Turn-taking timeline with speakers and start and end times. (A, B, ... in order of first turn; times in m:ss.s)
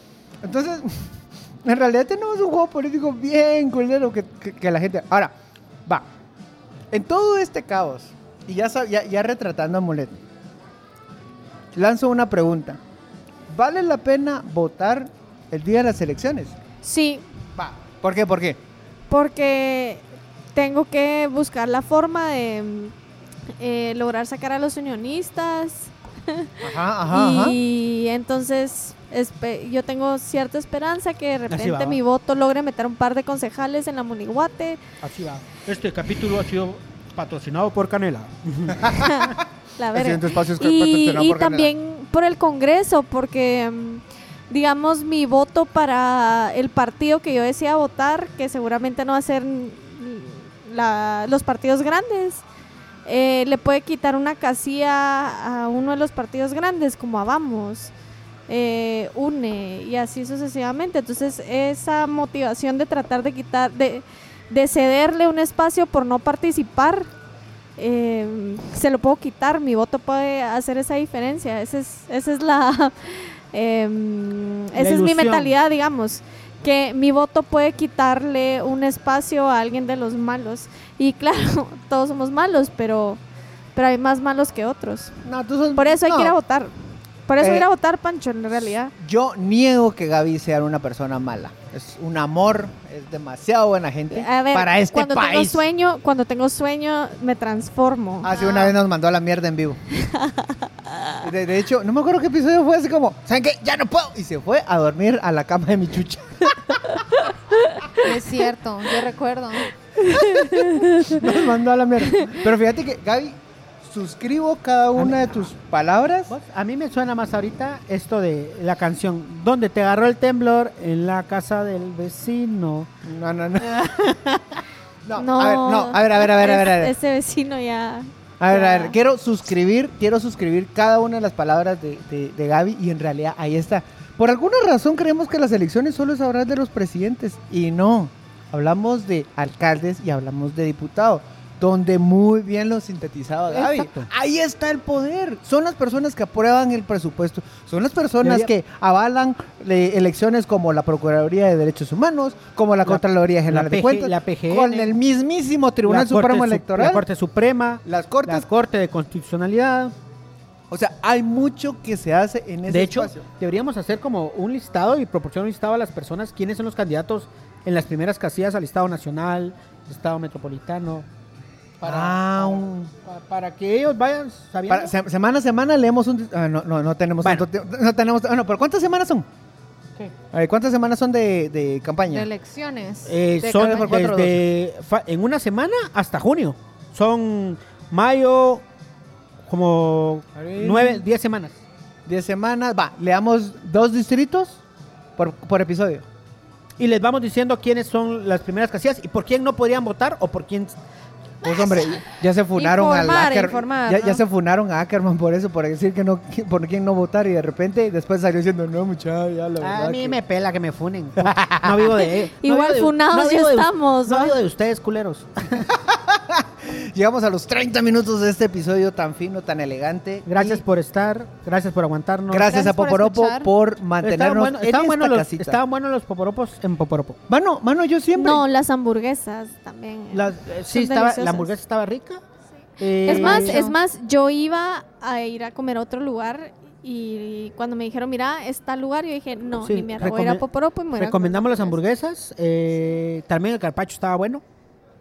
0:00.4-0:05.3 A
0:06.9-0:10.2 A
0:11.7-0:12.8 A
0:13.5-0:16.6 A
0:16.8-0:17.2 B
0:17.6-0:18.6 A
0:19.1-0:20.0 B
0:20.5-0:22.9 B
0:23.6-0:34.8 B
0:26.6-0:27.6 A
0:31.5-0:32.0 C
0:35.0-0:39.3 C
0:38.8-0:39.1 A
0:38.9-0:52.4 B
0:39.9-0:41.7 A
0:53.0-0:57.9 B
0:58.5-1:07.1 B
1:07.8-1:23.2 B
1:14.7-1:15.6 C
1:23.7-1:25.2 B
1:25.2-1:26.3 A
1:25.7-1:28.9 B
1:27.4-1:27.7 A
1:29.0-1:35.6 A
1:34.1-1:38.3 B
1:38.2-1:39.8 A
1:38.3-1:38.7 D
1:40.0-1:41.1 B
1:41.2-1:46.8 A
1:48.0-1:49.7 D
1:50.0-1:51.4 B
1:50.1-1:56.3 A
1:56.3-2:02.9 C
2:03.0-2:03.8 A
2:03.6-2:04.6 C
2:05.0-2:06.9 A
2:05.2-2:09.0 B
2:08.4-2:37.0 A
2:23.5-2:24.1 C
2:28.2-2:28.5 C
2:32.8-2:34.9 C
2:35.8-2:39.9 C
2:37.8-2:38.5 A
2:40.7-2:43.2 A
2:42.6-2:51.0 C
2:51.8-2:54.9 C
2:51.8-2:52.9 A
2:54.7-2:59.2 A
2:57.2-2:57.5 C
3:00.3-3:02.3 A
3:02.1-3:03.2 D
3:03.0-3:08.6 C
3:03.4-3:04.4 A
3:09.4-3:11.6 C
3:10.4-3:11.0 A
3:12.1-3:14.6 A
3:15.2-3:16.0 A
3:16.8-3:20.8 C
3:21.4-3:30.2 A
3:22.5-3:24.2 D
3:29.6-3:35.7 C
3:31.2-3:31.8 A
3:32.4-3:34.3 B
3:35.7-3:40.6 A
3:40.2-3:42.7 C
3:42.3-3:45.6 A
3:42.4-3:43.5 D
3:44.0-3:47.2 C
3:47.3-3:48.4 A
3:48.2-3:51.5 B
3:50.1-3:52.2 C
3:52.8-3:53.6 C
3:53.0-3:53.8 D
3:53.0-4:01.7 B
3:59.6-4:04.4 C